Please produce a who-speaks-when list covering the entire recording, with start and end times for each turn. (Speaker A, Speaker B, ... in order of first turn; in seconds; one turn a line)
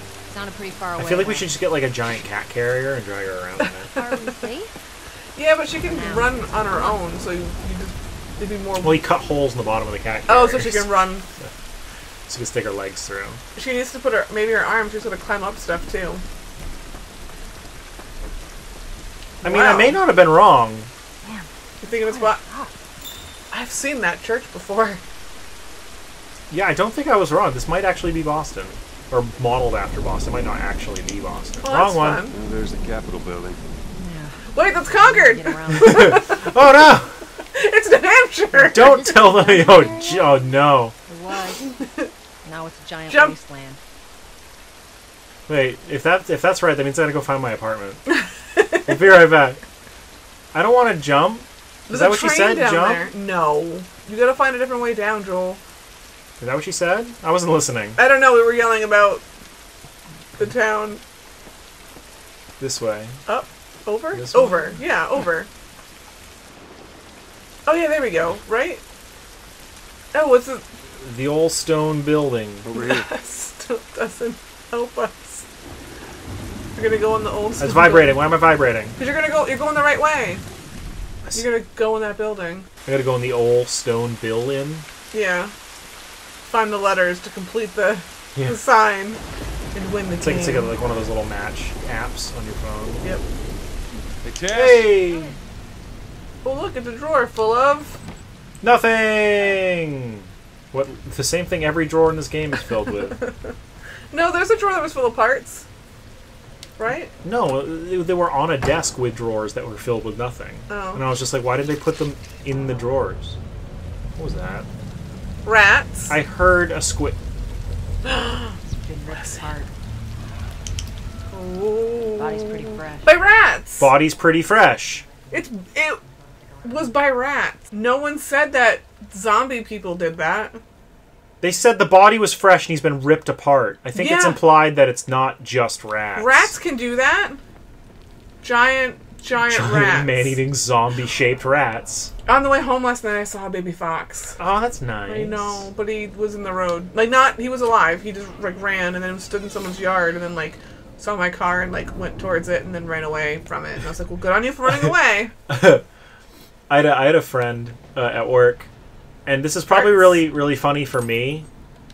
Speaker A: 0.3-1.6
Speaker B: 1.0-3.9
Speaker C: 3.6-4.1
Speaker D: 3.9-4.7
Speaker C: 5.3-9.0
Speaker A: 5.8-7.0
Speaker B: 8.8-11.5
Speaker C: 10.3-11.2
Speaker B: 12.3-13.4
Speaker C: 13.5-16.2
Speaker B: 19.4-20.9
Speaker C: 19.4-20.0
Speaker C: 21.8-22.4
Speaker A: 22.2-22.7
Speaker C: 23.5-25.0
Speaker B: 26.5-32.2
Speaker C: 31.6-32.4
Speaker E: 32.3-33.6
Speaker A: 34.0-36.2
Speaker C: 34.5-36.4
Speaker B: 35.7-37.2
Speaker C: 37.5-38.9
Speaker B: 38.6-40.9
Speaker D: 38.8-40.5
Speaker A: 41.1-41.7
Speaker C: 41.8-42.1
Speaker A: 42.4-43.8
Speaker C: 43.1-43.3
Speaker B: 45.5-48.0
Speaker C: 48.1-49.2
Speaker B: 48.9-49.6
Speaker B: 50.5-53.1
Speaker C: 51.9-55.6
Speaker B: 56.4-58.0
Speaker C: 58.0-59.2
Speaker C: 60.4-61.0
Speaker B: 62.6-63.2
Speaker C: 63.2-65.5
Speaker B: 64.1-64.8
Speaker C: 67.7-68.8
Speaker C: 70.1-70.6
Speaker B: 71.0-72.7
Speaker E: 72.6-73.1
Speaker C: 72.7-75.4
Speaker C: 76.8-78.3
Speaker B: 77.6-79.0
Speaker C: 79.0-80.4
Speaker C: 81.3-82.7
Speaker B: 82.8-84.8
Speaker C: 85.1-85.5
Speaker C: 86.5-89.2
Speaker C: 89.7-90.7
Speaker B: 90.2-93.0
Speaker E: 94.2-95.0
Speaker B: 94.5-95.3
Speaker C: 96.4-98.0
Speaker B: 98.6-103.2
Speaker C: 103.1-103.5
Speaker C: 104.1-105.7
Speaker C: 106.8-107.1
Speaker B: 107.2-113.4
Speaker C: 110.7-111.0
Speaker B: 114.2-114.7
Speaker C: 115.4-116.1
Speaker B: 116.1-117.2
Speaker C: 118.0-118.5
Speaker A: 118.7-119.7
Speaker C: 121.3-123.9
Speaker A: 122.1-123.1
Speaker B: 123.8-125.0
Speaker C: 125.3-126.0
Speaker C: 126.6-130.6
Speaker B: 131.4-136.5
Speaker C: 133.9-134.4
Speaker C: 136.2-137.4
Speaker C: 138.4-140.4
Speaker B: 139.4-142.1
Speaker C: 142.2-144.4
Speaker B: 144.4-145.7
Speaker C: 145.1-155.3
Speaker B: 155.5-155.8
Speaker B: 156.7-158.7
Speaker B: 159.2-161.5
Speaker C: 159.7-160.3